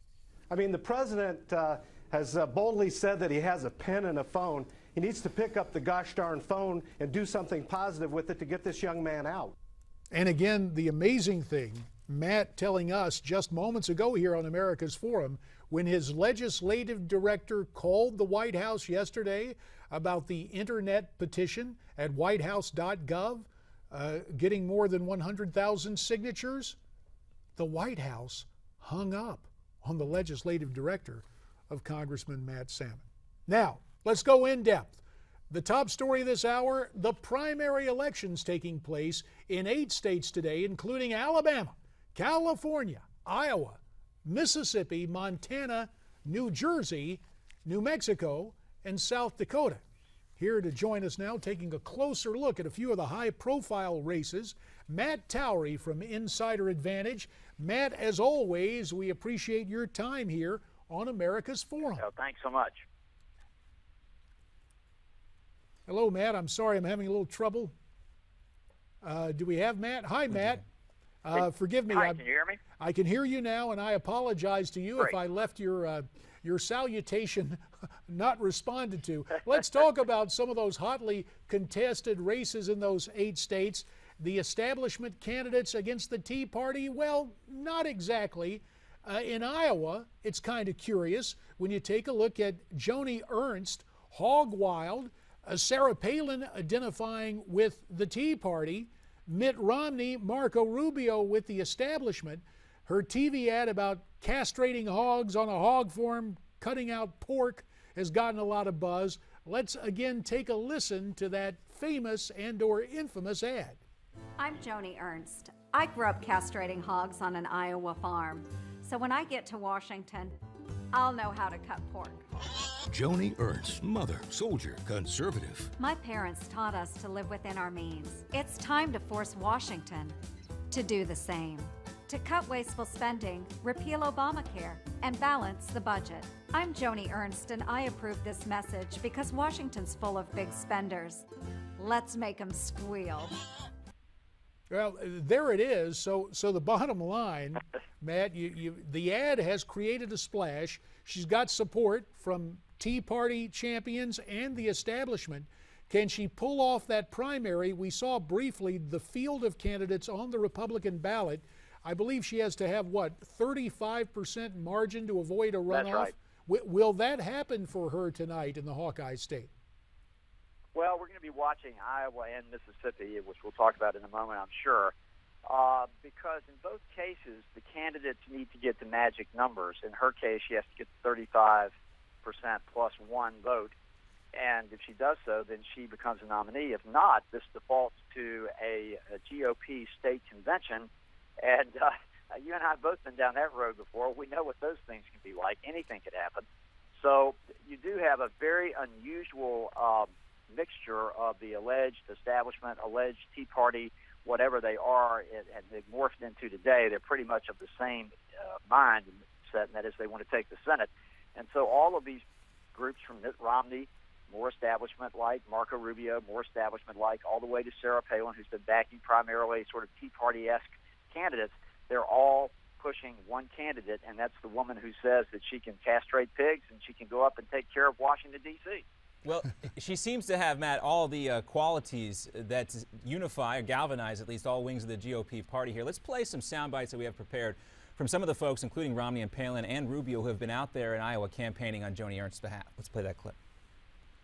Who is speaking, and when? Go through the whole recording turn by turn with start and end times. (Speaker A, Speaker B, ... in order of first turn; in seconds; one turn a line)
Speaker A: 0.5-9.5
Speaker B: 10.1-26.8
Speaker B: 27.6-49.8
Speaker B: 50.4-62.0
Speaker C: 62.0-62.8
Speaker B: 65.9-67.7
Speaker B: 69.0-70.6
Speaker B: 71.2-72.2
Speaker C: 71.3-72.6
Speaker B: 72.8-113.8
Speaker D: 114.4-120.3
Speaker D: 120.9-122.2
Speaker E: 123.0-125.7
Speaker D: 125.8-130.2
Speaker D: 130.7-141.2
Speaker D: 141.8-143.3
Speaker B: 144.7-169.5
Speaker C: 165.7-166.1
Speaker C: 170.7-174.9
Speaker C: 175.4-181.7
Speaker C: 182.2-183.7
Speaker C: 184.3-190.9
Speaker C: 191.4-196.4
Speaker C: 196.9-212.2
Speaker C: 212.7-228.8
Speaker F: 229.2-243.3